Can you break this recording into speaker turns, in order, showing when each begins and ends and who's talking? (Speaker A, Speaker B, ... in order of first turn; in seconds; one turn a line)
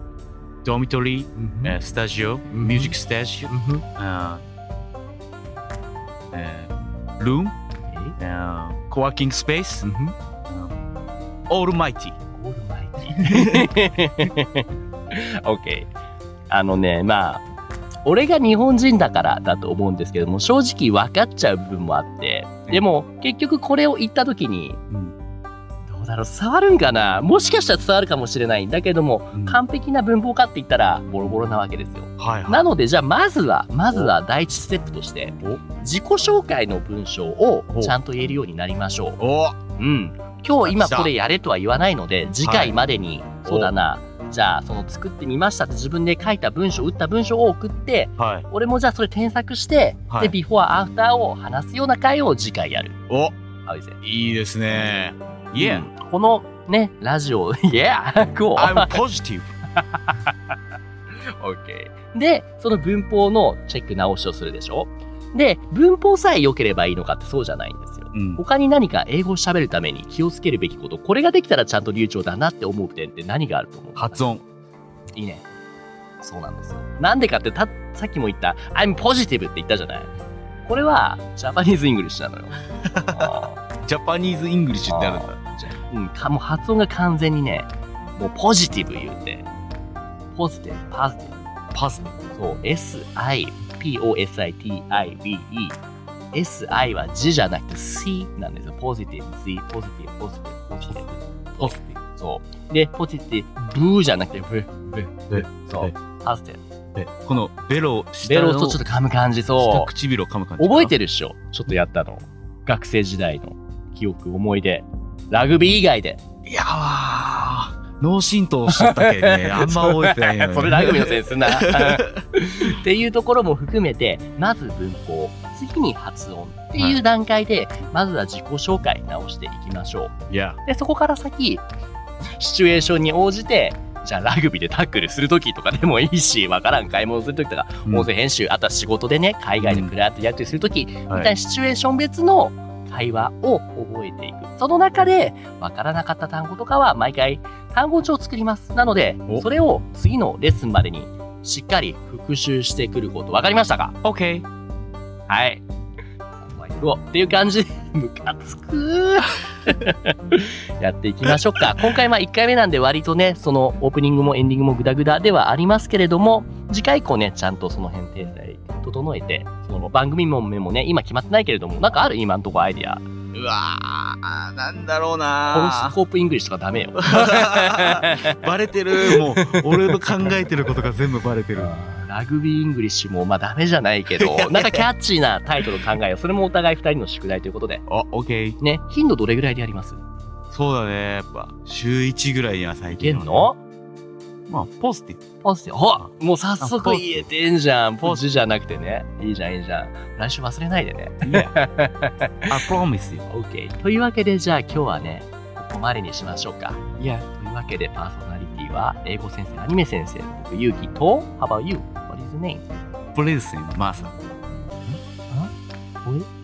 Speaker A: 0.6-4.4
Speaker B: 1.3-1.8
Speaker B: 2.5-3.0
Speaker B: 3.5-3.8
Speaker A: 6.3-7.5
Speaker B: 7.9-8.2
Speaker A: 8.2-9.9
Speaker B: 9.8-10.1
Speaker A: 10.5-10.8
Speaker A: 11.5-12.2
Speaker B: 12.3-15.9
Speaker A: 13.2-13.7
Speaker B: 16.5-17.4
Speaker B: 18.0-24.8
Speaker B: 25.9-39.2
Speaker A: 29.3-29.6
Speaker A: 32.2-32.6
Speaker A: 39.2-39.6
Speaker B: 39.8-53.0
Speaker A: 40.6-41.1
Speaker A: 42.4-42.8
Speaker A: 43.4-43.7
Speaker A: 48.2-48.5
Speaker A: 50.1-50.3
Speaker A: 53.1-53.3
Speaker B: 53.6-54.0
Speaker A: 54.0-55.8
Speaker B: 55.5-59.0
Speaker A: 58.5-59.5
Speaker B: 59.8-60.5
Speaker B: 61.4-74.4
Speaker A: 68.1-68.4
Speaker A: 74.0-74.4
Speaker B: 75.1-75.4
Speaker B: 76.2-80.1
Speaker B: 80.6-83.6
Speaker A: 82.8-85.3
Speaker B: 84.9-89.5
Speaker B: 90.3-91.4
Speaker A: 91.7-92.2
Speaker B: 92.3-95.8
Speaker B: 96.3-106.6
Speaker A: 100.9-102.0
Speaker A: 105.3-105.9
Speaker A: 106.9-108.8
Speaker B: 108.2-109.9
Speaker A: 109.6-110.9
Speaker B: 110.6-116.2
Speaker A: 116.5-122.2
Speaker B: 118.7-130.1
Speaker A: 130.3-130.6
Speaker B: 130.6-131.6
Speaker B: 132.3-153.9
Speaker A: 139.6-139.9
Speaker A: 154.0-154.4
Speaker B: 155.3-155.6
Speaker B: 156.4-173.0
Speaker A: 173.3-175.9
Speaker B: 175.5-180.8
Speaker A: 177.0-181.7
Speaker B: 181.5-187.8
Speaker A: 184.1-184.8
Speaker A: 187.9-188.6
Speaker B: 188.6-190.0
Speaker A: 190.5-193.5
Speaker B: 192.9-193.6
Speaker A: 194.5-195.2
Speaker B: 195.4-202.6
Speaker A: 196.6-197.3
Speaker A: 201.2-201.5
Speaker A: 202.5-203.3
Speaker B: 203.3-212.6
Speaker A: 207.0-207.2
Speaker A: 213.1-214.1
Speaker B: 214.8-215.5